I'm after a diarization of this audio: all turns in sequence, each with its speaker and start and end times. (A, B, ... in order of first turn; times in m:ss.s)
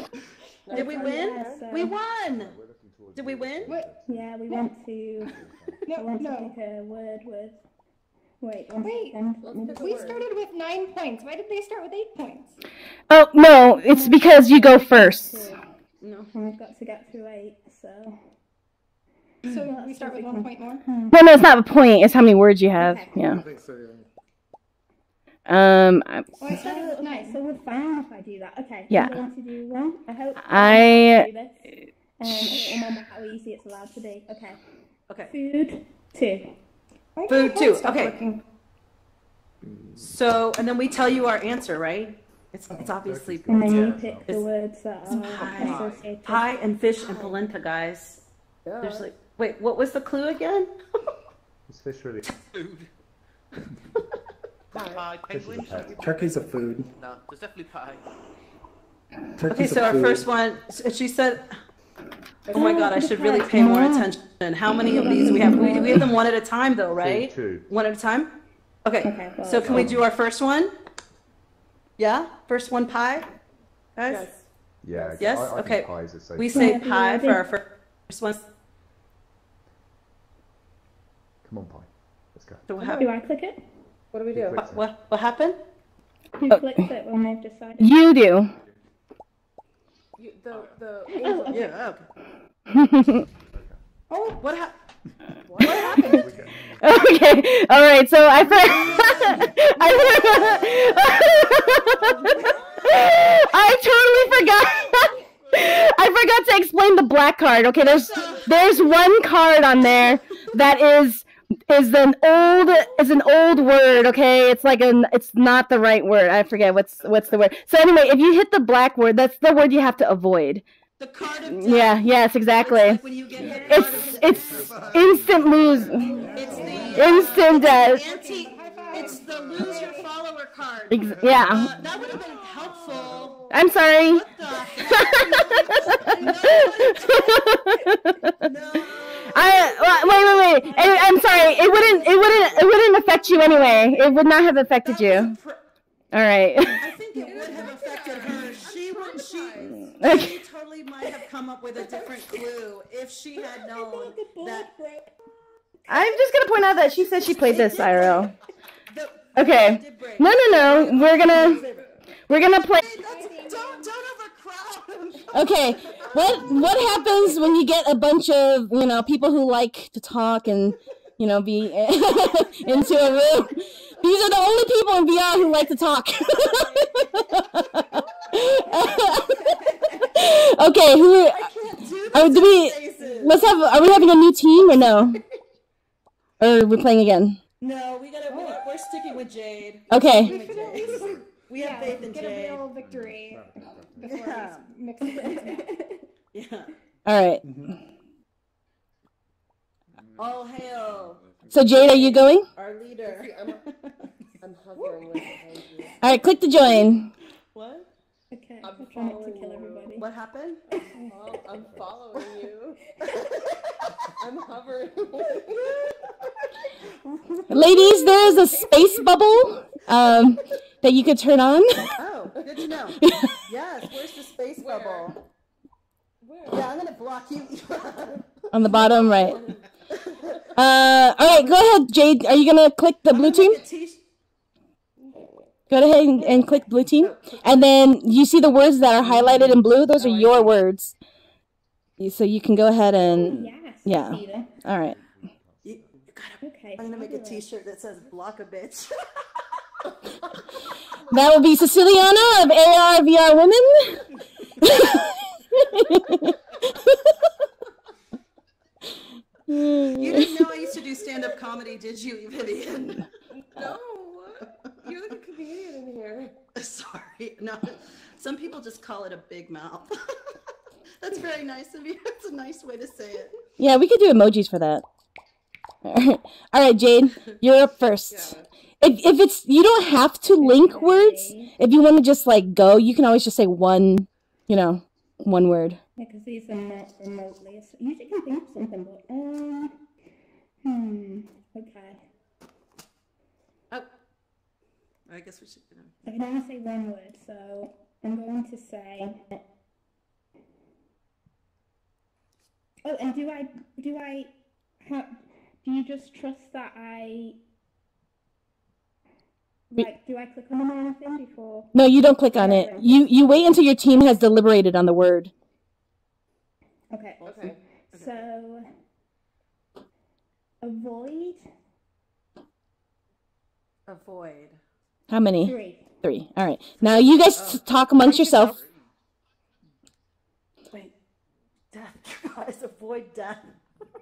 0:00.6-0:01.7 A
0:00.7-0:02.0 B
0:00.7-0:02.5 C
0:02.2-0:04.4 D
0:03.2-0:03.8 C
0:04.0-0:07.6 B
0:05.2-0:05.8 D
0:05.8-0:06.6 E
0:08.4-0:10.3 B
0:08.8-0:12.6 E
0:09.4-0:10.3 A
0:13.1-0:15.5 F
0:13.9-0:15.6 B
0:16.0-0:16.3 C
0:16.3-0:18.2 B
0:19.4-0:21.3 B
0:19.5-0:20.9 E
0:21.1-0:23.4 F
0:22.8-0:23.4 B
0:23.2-0:24.1 G
0:25.5-0:26.3 F
0:26.4-0:27.4 E
0:26.4-0:34.6 B
0:26.5-0:27.1 C
0:28.9-0:29.2 F
0:30.4-0:31.3 F
0:32.4-0:32.8 E
0:35.3-0:36.5 B
0:37.2-0:38.4 E
0:37.3-0:38.2 C
0:40.0-0:43.6 C
0:42.7-0:44.3 D
0:43.5-0:46.5 B
0:43.6-0:44.1 H
0:45.0-0:48.2 C
0:45.3-0:46.1 H
0:47.0-0:47.4 A
0:48.6-0:49.1 A
0:48.8-0:50.7 C
0:51.7-0:52.3 D
0:52.5-0:52.9 H
0:54.7-0:55.1 A
0:54.7-0:58.0 H
0:55.3-0:56.1 D
0:56.0-0:56.9 I
0:59.4-1:00.3 I
0:59.5-1:01.5 C
1:02.5-1:04.1 B
1:02.5-1:08.3 C
1:02.5-1:02.8 E
1:04.8-1:06.1 B
1:07.0-1:07.7 D
1:08.8-1:10.7 C
1:09.0-1:10.0 B
1:09.6-1:10.1 D
1:12.0-1:13.3 C
1:14.0-1:14.3 C
1:14.1-1:15.3 A
1:14.8-1:16.8 D
1:15.2-1:18.4 C
1:16.5-1:17.5 B
1:21.4-1:22.7 D
1:22.7-1:23.1 C
1:22.8-1:23.6 B
1:24.1-1:24.7 A
1:24.3-1:24.9 D
1:24.6-1:25.6 C
1:26.4-1:28.0 B
1:26.5-1:26.9 F
1:27.8-1:28.5 F
1:30.2-1:31.8 A
1:31.1-1:31.8 B
1:31.5-1:32.1 C
1:32.7-1:33.2 F
1:33.2-1:33.8 D
1:34.1-1:34.4 E
1:34.4-1:34.8 C
1:35.4-1:36.3 A
1:35.6-1:36.3 C
1:35.6-1:37.3 D
1:36.8-2:00.6 F
1:38.3-1:41.4 D
1:39.7-1:40.6 B
1:40.0-1:40.4 E
1:40.5-1:40.9 G
1:42.2-1:42.9 A
1:42.2-1:43.7 C
1:44.4-1:45.9 G
1:47.9-1:49.0 A
1:48.0-1:48.8 C
1:52.6-1:53.0 A
2:01.0-2:04.8 C
2:01.5-2:03.0 F
2:03.3-2:06.8 D
2:03.3-2:06.4 G
2:03.7-2:06.1 F
2:06.0-2:10.1 E
2:06.0-2:07.0 I
2:06.3-2:13.4 C
2:06.4-2:08.4 B
2:07.0-2:08.0 F
2:08.6-2:08.9 A
2:09.2-2:10.3 G
2:09.7-2:10.0 B
2:10.9-2:11.7 F
2:11.0-2:11.8 G
2:11.8-2:13.7 A
2:11.9-2:12.2 E
2:12.6-2:13.4 G
2:13.5-2:14.3 F
2:14.0-2:17.2 C
2:14.8-2:16.8 E
2:14.9-2:18.4 F
2:16.0-2:17.7 B
2:18.4-2:19.8 C
2:19.3-2:25.4 F
2:20.0-2:22.8 E
2:21.1-2:22.0 B
2:24.8-2:25.6 C
2:26.1-2:26.8 F
2:26.8-2:34.7 C
2:27.2-2:29.9 A
2:30.0-2:30.4 F
2:31.9-2:32.2 B
2:33.4-2:35.3 B
2:35.8-2:36.2 B
2:35.9-2:38.3 F
2:37.1-2:38.3 C
2:37.2-2:38.3 B
2:38.9-2:41.9 C
2:39.4-2:41.6 F
2:41.2-2:42.0 A
2:42.3-2:42.8 F
2:42.8-2:46.9 C
2:42.8-2:43.9 B
2:43.1-2:43.4 E
2:45.3-2:59.5 F
2:45.9-2:46.3 A
2:52.4-2:53.4 B
2:56.3-2:57.2 C
2:57.9-2:59.1 C
2:58.4-3:00.2 B
3:00.1-3:01.5 F
3:01.3-3:04.1 C
3:02.1-3:05.2 F
3:06.4-3:07.4 F
3:07.6-3:12.7 C
3:08.3-3:08.6 E
3:09.9-3:10.3 F
3:10.1-3:15.7 E
3:10.3-3:10.8 B
3:10.7-3:11.3 D
3:12.6-3:14.3 D
3:14.1-3:14.7 C
3:15.1-3:16.0 B
3:16.3-3:16.7 C
3:17.1-3:17.4 F
3:17.4-3:17.8 I
3:19.9-3:22.2 H
3:20.2-3:21.2 C
3:21.5-3:22.5 F
3:21.9-3:22.1 A
3:22.6-3:23.4 C
3:23.0-3:23.6 A
3:24.4-3:26.1 A
3:24.8-3:25.2 C
3:26.0-3:27.1 F
3:27.6-3:27.9 C
3:28.3-3:30.1 B
3:28.6-3:30.0 A
3:30.0-3:30.6 C
3:30.7-3:32.8 A
3:30.7-3:31.6 B
3:31.2-3:32.0 D
3:33.0-3:33.3 B
3:33.0-3:34.1 C
3:34.2-3:35.8 A
3:35.5-3:36.1 C
3:37.0-3:38.8 B
3:37.5-3:41.9 F
3:42.0-3:45.2 C
3:43.0-3:43.4 F
3:44.6-3:45.2 A
3:46.2-3:46.7 A
3:46.5-3:50.4 C
3:48.5-3:49.4 F
3:48.7-3:49.6 A
3:50.6-3:53.6 F
3:51.3-3:51.5 C
3:53.1-3:54.0 C
3:55.0-3:55.5 A
3:55.7-4:00.9 F
3:57.0-3:57.6 C
4:02.0-4:05.0 F
4:03.2-4:04.5 B
4:04.6-4:06.0 D
4:05.6-4:09.0 C
4:06.4-4:07.4 B
4:11.1-4:14.0 F
4:14.6-4:17.1 F
4:19.5-4:20.4 F
4:20.0-4:23.0 C
4:23.3-4:26.4 A
4:26.6-4:29.9 C
4:31.0-4:33.3 C
4:33.6-4:34.8 F
4:35.8-4:45.8 F
4:38.1-4:38.5 A
4:40.4-4:41.5 B
4:46.0-4:49.8 B
4:50.6-4:52.0 B
4:55.1-4:55.9 C
4:56.0-4:59.4 B
5:02.8-5:04.3 B
5:04.8-5:07.4 B
5:09.7-5:11.7 B
5:11.7-5:15.3 F
5:12.3-5:13.0 B
5:16.9-5:18.7 B
5:17.2-5:18.2 C
5:17.2-5:17.6 A
5:20.6-5:21.4 B
5:23.9-5:24.6 C
5:25.1-5:28.6 F
5:25.4-5:25.9 B
5:27.4-5:28.5 C
5:27.9-5:28.9 H
5:31.7-5:33.5 C